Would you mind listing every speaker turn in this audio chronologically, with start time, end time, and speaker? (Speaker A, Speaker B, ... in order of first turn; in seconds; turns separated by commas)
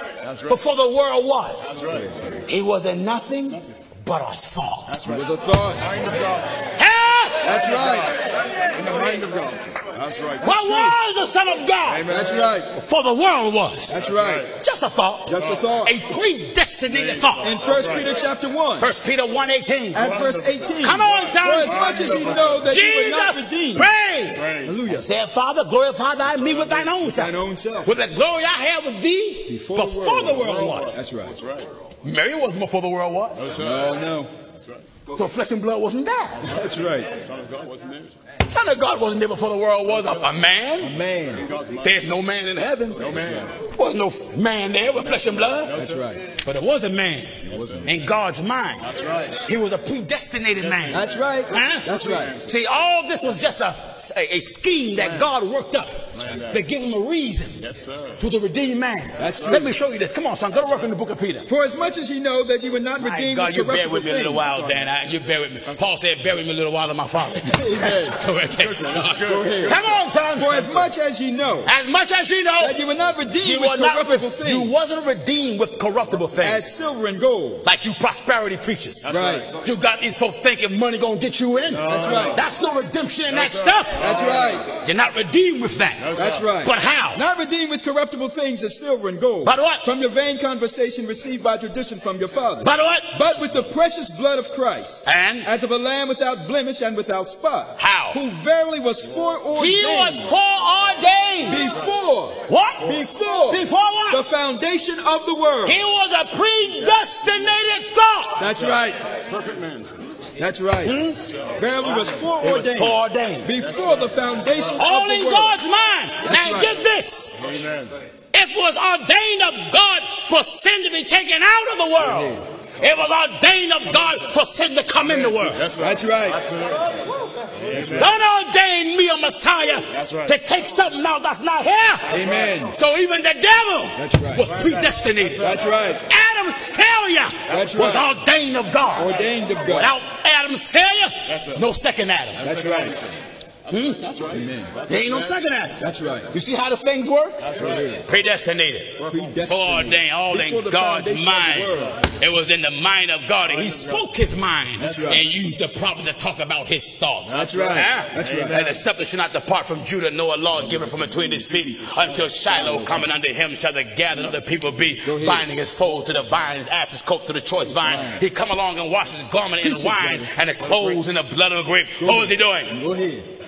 Speaker A: 0.2-0.8, Speaker B: 0.5-1.8, Speaker A: 1.6-2.2, Speaker C: 1.9-2.2, Speaker B: 2.5-5.0, Speaker A: 4.9-6.6, Speaker C: 5.0-5.9, Speaker B: 6.8-7.6, Speaker C: 7.4-8.2, Speaker A: 7.4-10.6, Speaker B: 10.4-12.1, Speaker C: 10.4-10.9, Speaker A: 11.9-12.6, Speaker C: 12.1-12.7, Speaker B: 12.7-14.0, Speaker C: 13.9-14.5, Speaker A: 14.0-14.5, Speaker B: 14.6-17.5, Speaker C: 15.3-15.9, Speaker A: 15.3-15.7, Speaker A: 16.9-18.1, Speaker C: 17.4-18.9, Speaker B: 18.8-20.1, Speaker C: 19.9-23.9, Speaker A: 20.0-22.8, Speaker B: 20.8-31.0, Speaker A: 24.3-24.8, Speaker C: 24.6-25.1, Speaker A: 26.3-26.9, Speaker C: 27.0-27.9, Speaker C: 29.5-31.4, Speaker A: 30.2-31.7, Speaker B: 32.0-33.5, Speaker A: 33.4-33.9, Speaker C: 33.6-34.3, Speaker B: 35.1-36.6, Speaker C: 36.5-37.1, Speaker A: 37.1-38.1, Speaker B: 38.4-40.9, Speaker A: 39.9-40.2, Speaker C: 40.8-41.5, Speaker A: 41.3-42.1, Speaker B: 41.8-45.7, Speaker A: 43.0-43.5, Speaker C: 43.1-43.5, Speaker A: 44.9-46.0, Speaker C: 45.7-46.2, Speaker B: 46.4-47.3, Speaker A: 47.4-47.9, Speaker B: 47.8-48.9, Speaker A: 48.8-49.5, Speaker B: 49.4-51.9, Speaker A: 50.6-51.0, Speaker C: 50.9-52.3, Speaker A: 51.9-52.5, Speaker B: 52.5-57.6, Speaker C: 55.0-55.3, Speaker A: 56.1-56.7, Speaker A: 57.6-58.2, Speaker B: 58.2-61.5, Speaker C: 59.2-59.8, Speaker A: 59.2-59.7, Speaker C: 61.5-64.8, Speaker B: 63.0-70.8, Speaker C: 67.4-68.2, Speaker A: 68.5-70.0, Speaker C: 69.2-71.7, Speaker B: 71.7-72.8, Speaker C: 72.6-74.7, Speaker B: 73.4-76.6, Speaker C: 76.4-77.6, Speaker B: 77.6-87.2, Speaker A: 79.0-79.5, Speaker C: 79.1-79.5, Speaker A: 81.7-82.4, Speaker C: 81.9-82.4, Speaker A: 83.3-84.6, Speaker C: 84.0-84.7, Speaker A: 86.0-86.5, Speaker C: 86.2-100.3, Speaker B: 89.5-89.8, Speaker B: 92.6-93.2, Speaker B: 95.1-95.5, Speaker B: 97.8-98.2, Speaker B: 99.5-101.6, Speaker C: 101.5-105.8, Speaker B: 102.5-104.2, Speaker B: 105.7-108.4, Speaker A: 106.8-107.6, Speaker C: 108.4-109.0, Speaker A: 108.5-110.0, Speaker C: 110.4-115.6, Speaker B: 110.8-111.2, Speaker A: 111.2-112.4, Speaker B: 112.4-113.5, Speaker A: 113.6-114.9, Speaker B: 114.8-117.5, Speaker C: 116.2-116.8, Speaker A: 117.4-117.9, Speaker B: 118.3-125.6, Speaker C: 122.0-122.4, Speaker A: 125.0-128.2, Speaker C: 125.8-126.4, Speaker C: 127.8-128.1, Speaker B: 127.8-132.1, Speaker A: 129.9-130.4, Speaker A: 132.1-132.6, Speaker C: 132.1-132.7, Speaker B: 132.7-142.4, Speaker C: 134.0-134.5, Speaker A: 134.5-135.7, Speaker C: 135.4-136.0, Speaker A: 137.5-137.8, Speaker C: 137.5-138.1, Speaker C: 138.9-139.9, Speaker A: 141.3-141.6, Speaker A: 142.4-145.5, Speaker C: 142.4-143.0, Speaker B: 143.7-144.1, Speaker C: 144.3-144.7, Speaker B: 144.9-145.8, Speaker C: 145.8-146.3, Speaker B: 146.3-147.5, Speaker A: 147.4-148.0, Speaker C: 147.6-148.0, Speaker B: 148.1-172.8, Speaker A: 149.0-149.4, Speaker C: 149.1-152.0, Speaker A: 151.5-152.0, Speaker A: 153.4-154.1, Speaker A: 154.8-155.2, Speaker C: 154.8-155.2, Speaker A: 157.3-158.8, Speaker C: 157.3-158.7, Speaker A: 160.6-162.4, Speaker C: 162.5-163.1, Speaker C: 165.0-165.5, Speaker C: 167.7-168.2, Speaker C: 169.6-170.3, Speaker A: 170.6-171.2, Speaker C: 172.0-173.3